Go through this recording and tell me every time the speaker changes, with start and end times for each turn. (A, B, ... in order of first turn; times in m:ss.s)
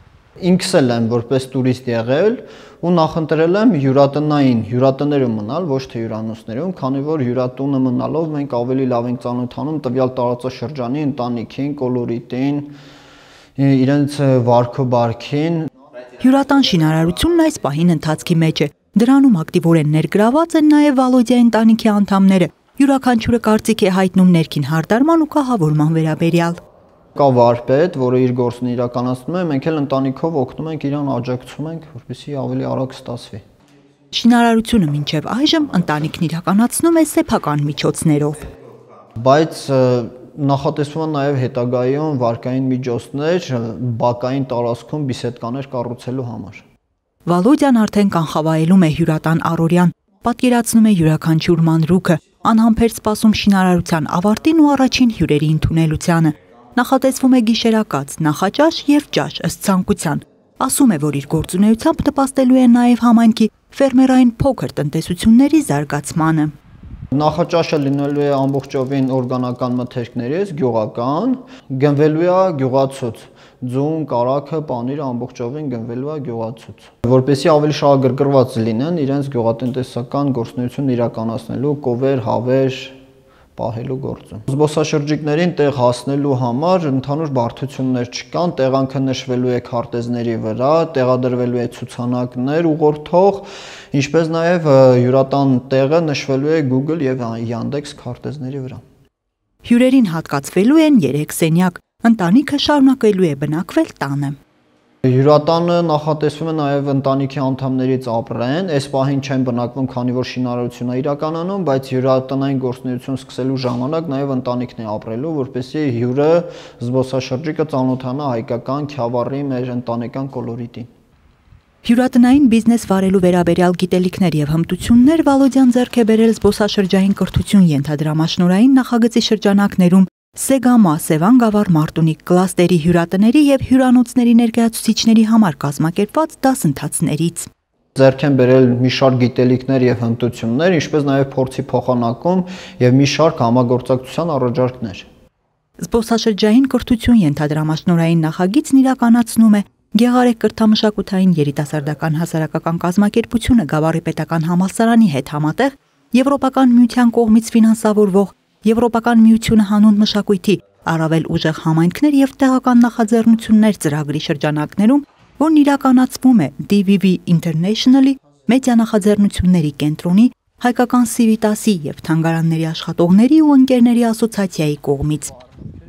0:00.4-0:12.8 A
0:13.6-0:15.7 A
0:16.2-0:26.6 B
0:27.2-0:33.4 A
0:34.1-0:38.5 B
0:39.2-0:46.6 A
0:47.3-1:06.5 B
1:07.1-1:23.0 A
1:23.6-1:38.8 A
1:39.6-1:44.4 B
1:45.0-2:00.9 A
2:01.8-2:17.5 B
2:18.0-2:25.1 A
2:25.8-2:55.4 B